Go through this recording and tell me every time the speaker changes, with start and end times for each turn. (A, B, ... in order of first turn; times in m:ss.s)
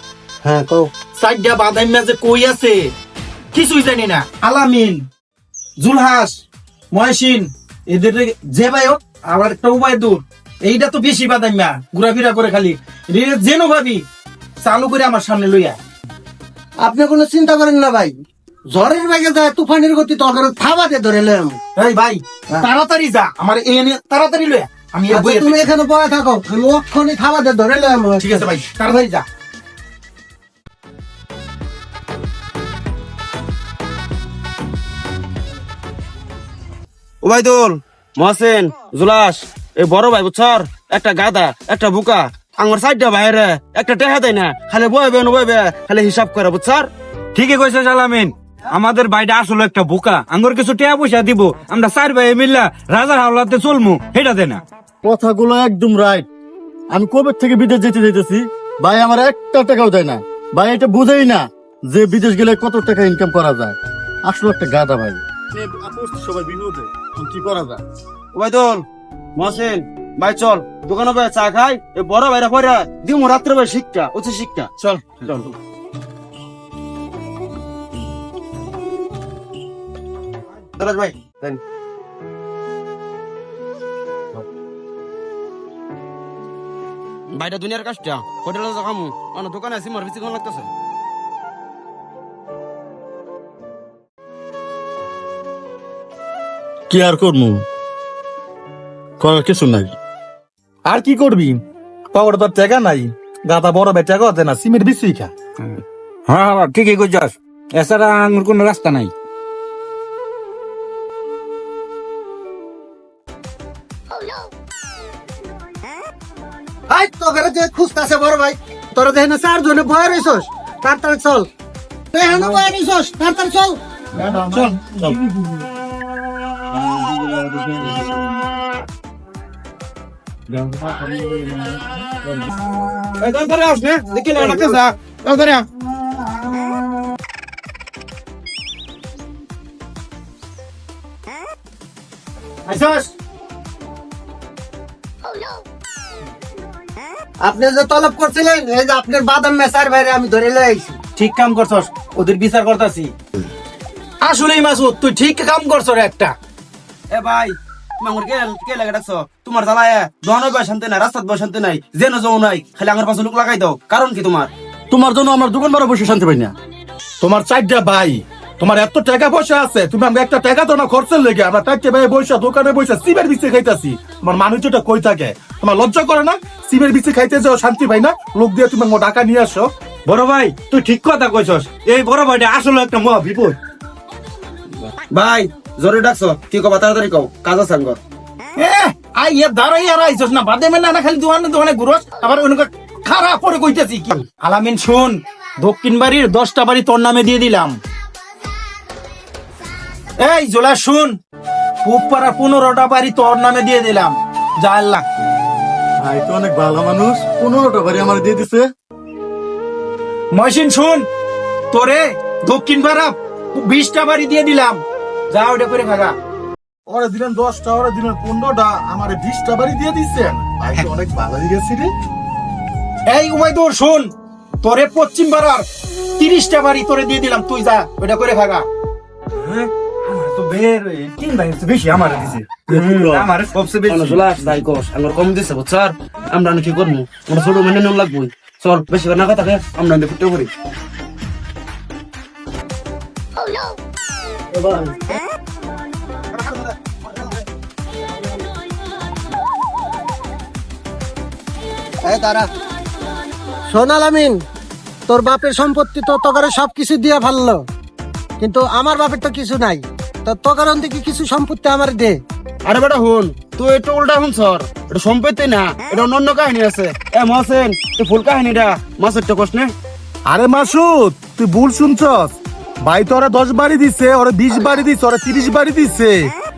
0:00.4-0:00.9 A
0:01.2-0:02.9 B
0:03.5-0:05.1 B
0:05.8-0:14.1 B
0:14.6-0:15.8 B
0:16.8-0:21.6 A
0:21.8-0:25.6 B
0:25.1-0:28.5 A
0:28.2-0:29.2 B
0:37.2-0:46.9 C
0:47.4-0:54.6 D
0:55.0-0:56.3 E
0:56.9-1:07.8 E
1:08.3-1:08.8 C
1:09.4-1:15.6 C
1:20.8-1:21.6 C
1:27.3-1:30.7 C
1:36.9-1:37.6 E
1:39.2-1:39.9 E
1:40.9-1:45.3 F
1:46.3-1:49.1 D
1:56.9-2:01.5 A
2:02.1-2:03.8 A
2:04.3-2:04.6 B
2:04.5-2:05.1 C
2:06.9-2:08.1 C
2:13.2-2:15.6 C
2:22.7-2:23.1 B
2:27.4-2:31.0 A
2:31.2-2:33.1 B
2:34.2-2:36.3 B
2:37.1-2:44.5 C
2:44.9-2:46.5 E
2:47.2-2:59.7 F
3:00.1-3:00.5 D
3:00.4-3:01.7 B
3:01.7-3:03.5 D
3:02.8-3:03.5 B
3:05.1-3:08.0 C
3:08.6-3:17.8 B
3:20.2-3:21.2 B
3:21.8-3:25.0 B
3:26.0-3:28.7 E
3:30.3-3:31.1 B
3:31.7-3:36.2 B
3:36.9-3:41.9 F
3:43.1-3:44.1 B
3:44.6-3:45.7 B
3:46.2-3:48.7 B
3:49.4-3:54.5 D
3:52.7-3:53.3 E
3:53.8-4:00.5 C
4:04.5-4:04.9 A
4:06.4-4:06.6 C
4:12.0-4:12.5 A
4:13.7-4:14.4 A
4:15.1-4:17.6 A
4:18.4-4:22.2 A
4:22.6-4:29.7 C
4:30.3-4:36.3 F